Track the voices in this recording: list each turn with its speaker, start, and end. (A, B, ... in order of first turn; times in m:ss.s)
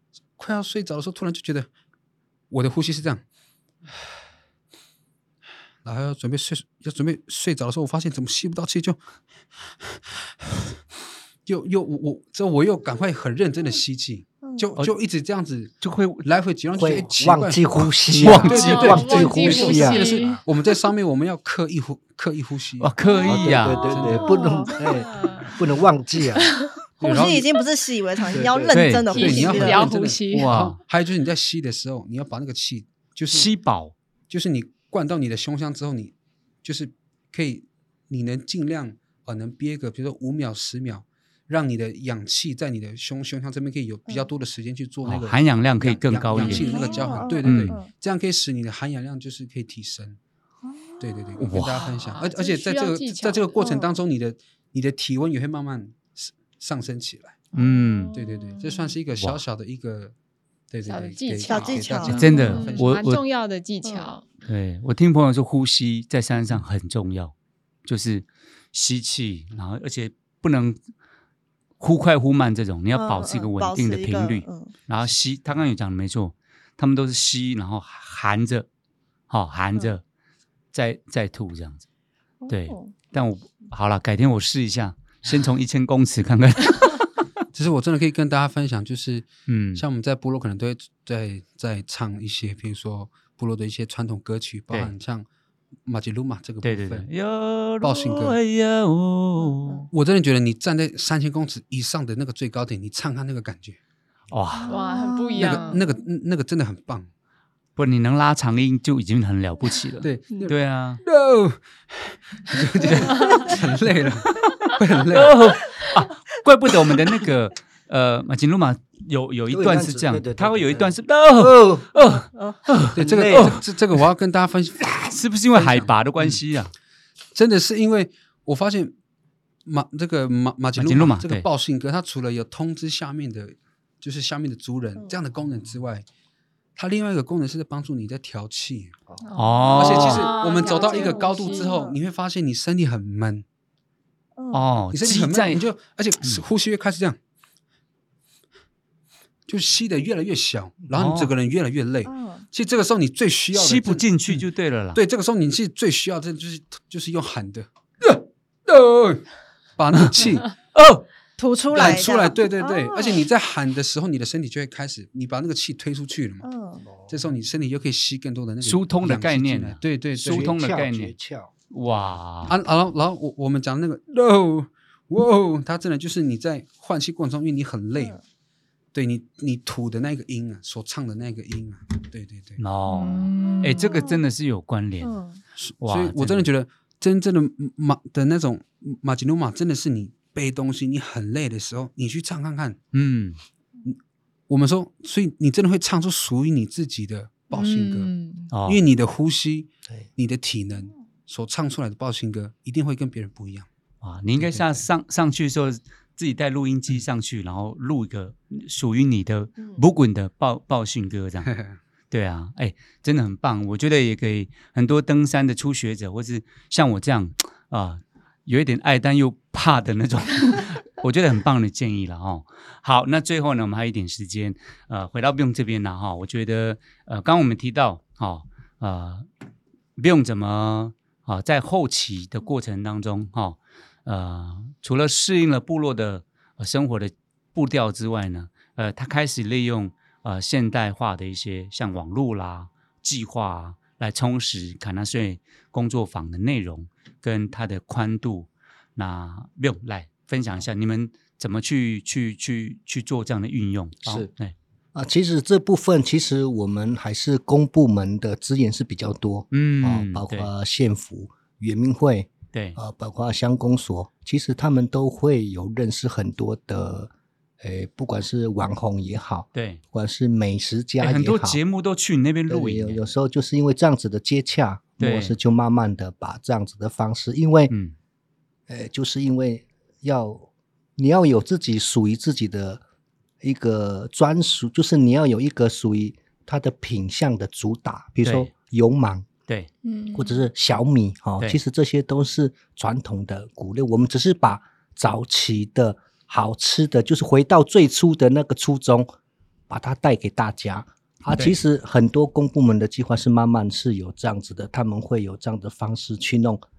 0:00.4-0:01.7 A
0:02.5-0:03.2 A
0:05.8-0:09.0 A
0:09.7-0:10.7 A
0:11.5-0:22.9 A
0:15.8-0:16.3 B
0:16.7-0:20.4 C
0:18.1-0:19.1 B
0:18.4-0:20.4 D
0:22.8-0:23.9 B
0:23.2-0:26.6 C
0:23.7-0:24.9 E
0:23.9-0:24.5 A
0:24.2-0:25.6 D
0:26.4-0:26.8 D
0:27.0-0:29.9 E
0:27.0-0:27.6 A
0:28.3-0:28.7 C
0:28.5-0:33.5 A
0:28.7-0:29.1 B
0:29.0-0:30.5 D
0:30.3-0:30.8 B
0:33.3-0:33.9 B
0:34.3-0:50.2 A
0:45.0-0:46.8 B
0:46.4-0:47.9 E
0:46.5-0:47.2 D
0:47.4-0:47.8 B
0:50.6-0:51.4 E
0:51.0-0:57.5 A
0:51.4-0:51.9 B
0:51.6-0:53.6 D
0:53.6-0:54.0 E
0:57.5-0:58.1 B
0:57.5-0:59.0 D
0:58.1-1:00.1 A
0:59.2-0:59.4 B
1:00.7-1:03.1 A
1:00.8-1:04.2 D
1:01.4-1:02.4 E
1:02.1-1:03.2 B
1:03.8-1:04.1 E
1:04.4-1:07.3 B
1:07.8-1:10.8 B
1:11.8-1:18.7 B
1:12.9-1:14.7 E
1:19.3-1:20.0 B
1:20.7-1:21.8 B
1:22.4-1:22.9 E
1:22.5-1:27.2 B
1:27.5-1:35.3 A
1:29.5-1:29.8 B
1:35.9-1:37.1 A
1:36.6-1:39.9 B
1:37.8-1:38.4 A
1:39.4-1:39.9 E
1:39.9-1:43.8 A
1:44.3-1:44.8 B
1:44.6-1:45.9 E
1:44.7-1:45.8 D
1:45.4-1:47.1 A
1:47.8-1:51.0 B
1:50.0-1:55.4 A
1:53.2-1:53.4 D
1:54.4-2:04.0 B
1:59.5-2:01.9 C
2:02.3-2:02.6 E
2:02.9-2:05.0 A
2:03.0-2:03.6 C
2:04.8-2:06.7 B
2:05.5-2:06.4 A
2:07.3-2:09.0 A
2:09.6-2:16.0 A
2:10.8-2:11.5 B
2:16.8-2:19.0 A
2:19.2-2:21.8 D
2:19.4-2:20.3 B
2:19.7-2:23.4 A
2:20.3-2:22.0 E
2:24.4-2:24.6 E
2:24.5-2:25.6 B
2:24.9-2:27.2 A
2:29.5-2:39.3 A
2:30.9-2:31.3 B
2:32.0-2:32.5 E
2:33.5-2:35.0 B
2:39.8-2:40.5 A
2:40.7-2:41.0 B
2:41.4-2:43.2 E
2:41.7-2:46.5 A
2:46.4-2:46.9 E
2:46.9-2:47.2 C
2:47.1-2:50.5 A
2:48.6-2:51.1 B
2:50.2-2:51.5 C
2:51.7-2:52.6 B
2:52.5-2:58.2 A
2:58.9-3:02.6 A
3:02.6-3:05.2 B
3:02.9-3:04.0 D
3:05.0-3:05.4 E
3:05.6-3:12.8 A
3:05.8-3:06.5 B
3:12.9-3:13.4 B
3:14.5-3:18.1 A
3:17.5-3:18.5 D
3:18.5-3:18.8 B
3:18.6-3:23.7 A
3:24.0-3:31.5 B
3:24.4-3:24.9 A
3:29.6-3:29.8 E
3:31.5-3:31.8 A
3:32.1-3:49.3 B
3:50.0-4:14.5 B
4:14.0-4:14.3 C
4:15.0-4:31.6 C
4:19.5-4:20.5 B
4:29.5-4:29.8 B
4:31.0-4:33.0 B
4:32.5-4:37.7 C
4:35.0-4:35.4 B
4:37.7-4:38.0 B
4:38.7-4:42.8 C
4:43.4-4:49.3 C
4:48.2-4:48.5 B
4:49.8-4:50.5 D
4:50.1-4:59.1 C
4:59.7-5:06.6 C